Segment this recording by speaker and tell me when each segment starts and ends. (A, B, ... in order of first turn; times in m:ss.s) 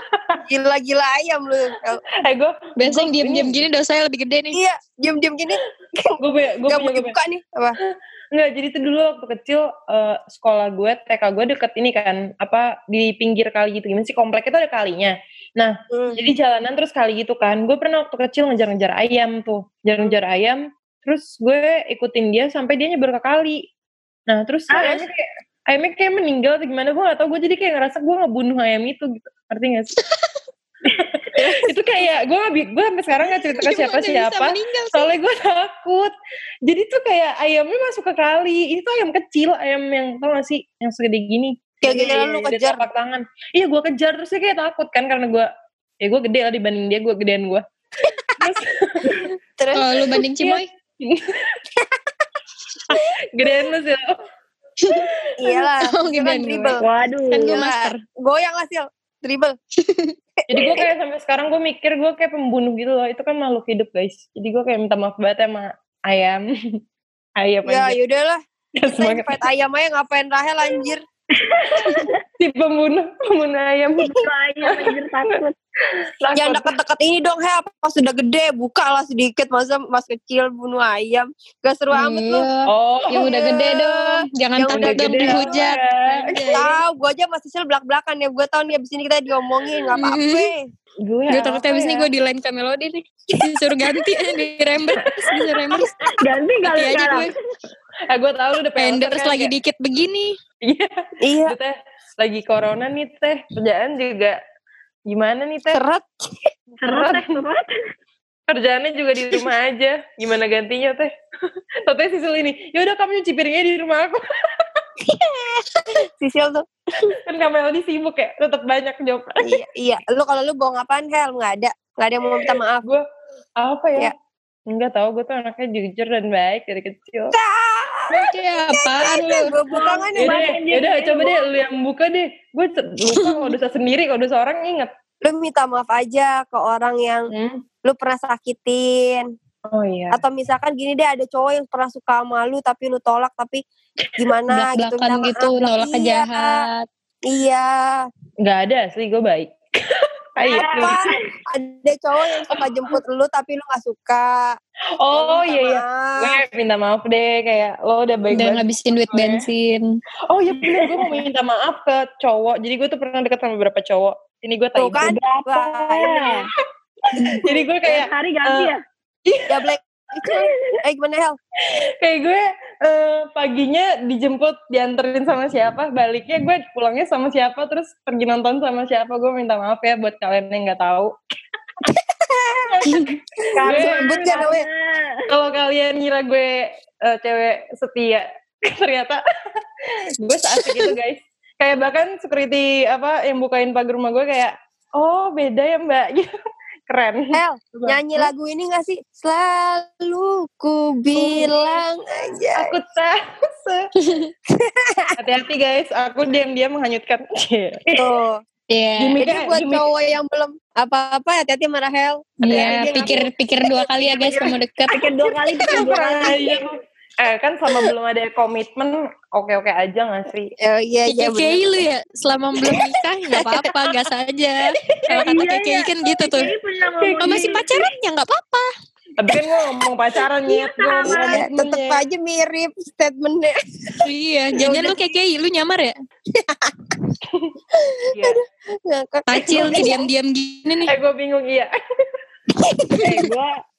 0:00.1-0:00.4 A
0:00.4-0:02.0 B
0:02.2-0:03.6 A
0:02.8-0:04.6 C
0:04.5-0:07.8 B
0:06.2-0:07.2 A
0:07.8-0:23.6 A
0:15.9-0:16.2 B
0:24.3-0:29.9 A
0:24.7-0:25.1 B
0:30.9-0:36.1 A
0:31.4-0:31.7 B
0:33.2-0:35.1 C
0:36.6-0:45.5 A
0:41.8-0:42.8 B
0:46.0-0:47.6 A
0:48.4-0:49.3 A
0:49.6-0:49.9 B
0:49.7-0:50.7 C
0:50.4-0:51.6 A
0:52.9-0:54.1 A
0:54.8-0:56.8 C
0:55.4-0:56.8 B
0:56.8-0:57.6 D
0:57.3-0:58.0 C
0:57.4-0:59.6 B
0:59.8-1:00.1 C
1:00.5-1:06.4 A
1:00.5-1:00.9 B
1:07.4-1:08.0 A
1:07.6-1:08.4 B
1:08.8-1:09.4 A
1:09.0-1:11.0 B
1:11.4-1:12.2 D
1:12.4-1:15.0 A
1:14.0-1:15.5 D
1:16.2-1:16.7 A
1:16.4-1:22.5 B
1:21.9-1:26.7 C
1:22.6-1:23.9 A
1:24.6-1:25.6 B
1:24.7-1:26.6 A
1:26.3-1:30.7 B
1:30.0-1:30.5 C
1:31.0-1:32.1 A
1:31.3-1:35.9 C
1:34.9-1:35.4 A
1:36.2-1:37.3 D
1:36.6-1:37.3 C
1:38.1-1:39.5 A
1:38.8-1:40.4 C
1:40.6-1:40.9 A
1:41.2-1:41.6 B
1:41.5-1:44.4 A
1:45.1-1:45.8 A
1:45.7-1:46.4 B
1:46.8-1:47.7 D
1:46.9-1:47.4 A
1:48.5-1:51.1 A
1:51.9-1:54.2 A
1:55.0-1:56.6 B
1:57.0-1:59.5 A
1:59.4-2:02.8 B
2:03.6-2:04.1 A
2:04.7-2:07.3 A
2:07.3-2:10.5 B
2:08.1-2:09.5 C
2:09.7-2:11.5 D
2:10.2-2:14.9 A
2:13.1-2:13.5 C
2:15.2-2:17.3 B
2:17.3-2:17.6 A
2:17.8-2:19.3 B
2:19.7-2:20.2 A
2:20.1-2:23.6 B
2:24.2-2:26.6 B
2:24.5-2:26.9 C
2:27.3-2:28.0 B
2:28.4-2:29.5 A
2:30.4-2:31.0 A
2:30.4-2:34.6 B
2:30.5-2:31.1 D
2:32.5-2:33.0 A
2:35.0-2:39.5 A
2:35.1-2:36.4 B
2:38.3-2:40.0 C
2:40.3-2:45.1 A
2:40.7-2:41.0 D
2:44.8-2:46.4 B
2:45.0-2:46.5 D
2:47.2-2:48.7 A
2:47.8-2:48.8 D
2:49.3-2:49.7 A
2:49.5-2:51.4 B
2:51.7-3:01.1 A
3:01.9-3:02.8 B
3:02.7-3:04.5 A
3:03.5-3:04.6 B
3:03.6-3:05.2 D
3:05.3-3:09.2 A
3:09.9-3:16.3 A
3:10.5-3:10.9 C
3:16.9-3:18.3 A
3:17.3-3:22.7 B
3:21.1-3:21.8 A
3:22.6-3:23.9 A
3:24.0-3:24.3 C
3:24.5-3:25.2 B
3:25.2-3:27.8 A
3:28.0-3:28.4 B
3:28.7-3:29.2 C
3:29.0-3:29.8 A
3:29.2-3:33.1 B
3:32.4-3:35.1 C
3:32.5-3:33.1 A
3:34.0-3:34.5 B
3:34.9-3:36.6 D
3:35.6-3:40.5 A
3:40.6-3:41.7 B
3:41.1-3:46.5 C
3:43.3-3:43.8 B
3:45.2-3:47.7 D
3:47.0-3:47.6 A
3:47.2-3:48.6 C
3:49.2-3:51.5 A
3:50.6-3:51.4 D
3:51.0-3:53.6 B
3:51.3-3:52.0 C
3:54.0-3:55.9 C
3:54.6-3:55.0 B
3:54.6-3:54.9 A
3:56.3-3:57.0 B
3:57.7-4:00.1 B
3:58.1-3:58.4 A
3:59.3-4:00.9 C
3:59.5-3:59.8 A
4:00.9-4:01.7 A
4:02.6-4:03.2 B
4:03.0-4:03.6 D